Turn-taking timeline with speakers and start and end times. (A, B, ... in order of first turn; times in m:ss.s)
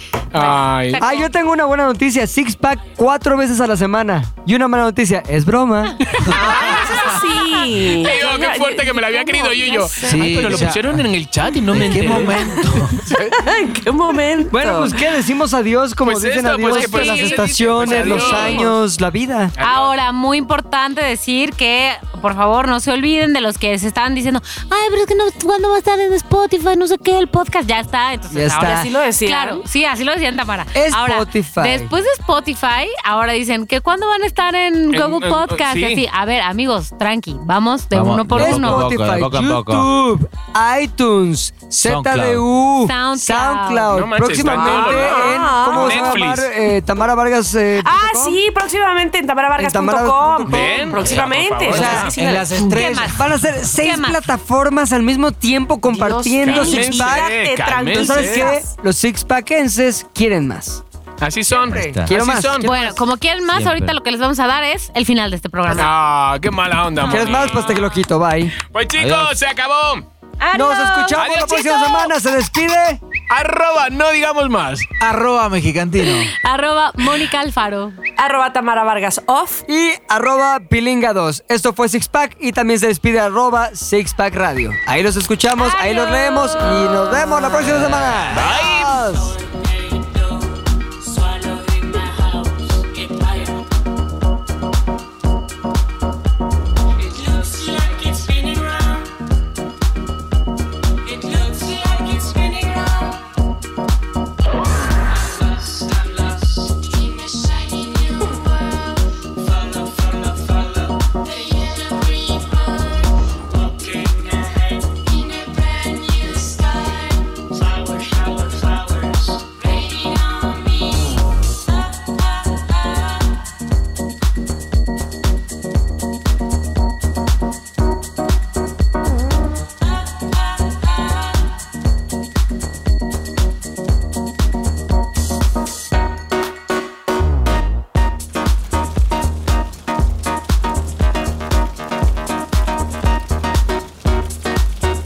0:00.3-0:01.0 A
0:00.3-0:01.3 B
0:01.0-0:06.0 C
0:06.2-0:07.5 B
0:06.2-0:10.7 D
0:06.5-0:06.9 A
0:07.8-0:12.4 A
0:10.0-0:11.0 E
0:11.7-0:13.1 E
0:13.0-0:13.4 A
0:13.1-0:15.0 D
0:14.5-0:19.6 C
0:16.0-0:18.8 A
0:16.7-0:18.7 D
0:16.7-0:17.4 B
0:17.9-0:18.6 B
0:19.6-0:19.9 A
0:19.6-0:38.9 B
0:28.3-0:28.9 C
0:28.6-0:29.6 D
0:30.7-0:31.9 C
0:34.9-0:36.0 A
0:37.9-0:39.9 E
0:38.4-0:48.4 C
0:41.8-0:42.4 E
0:42.8-0:43.9 B
0:43.9-0:46.5 A
0:44.4-0:46.2 D
0:47.8-0:52.6 D
0:49.6-0:51.1 C
0:50.5-0:52.1 A
0:51.7-0:53.4 E
0:52.6-0:53.2 B
0:52.6-0:57.3 C
0:53.8-0:54.2 B
0:55.9-0:58.7 D
0:56.4-0:58.5 A
0:57.9-1:00.8 C
1:01.2-1:02.7 A
1:01.5-1:03.0 C
1:01.7-1:02.1 E
1:02.6-1:05.9 B
1:03.5-1:04.0 E
1:05.7-1:07.9 A
1:07.0-1:08.6 C
1:07.2-1:07.5 B
1:08.7-1:10.0 A
1:09.0-1:09.4 E
1:10.4-1:12.1 B
1:10.5-1:13.0 C
1:11.2-1:11.7 A
1:13.3-1:14.9 A
1:15.0-1:16.3 E
1:16.1-1:18.0 B
1:18.2-1:19.6 D
1:19.7-1:29.4 C
1:25.6-1:27.2 B
1:28.3-1:29.2 A
1:41.9-1:43.1 B
1:47.8-1:48.2 B
1:51.7-1:52.6 B
1:55.9-1:57.3 B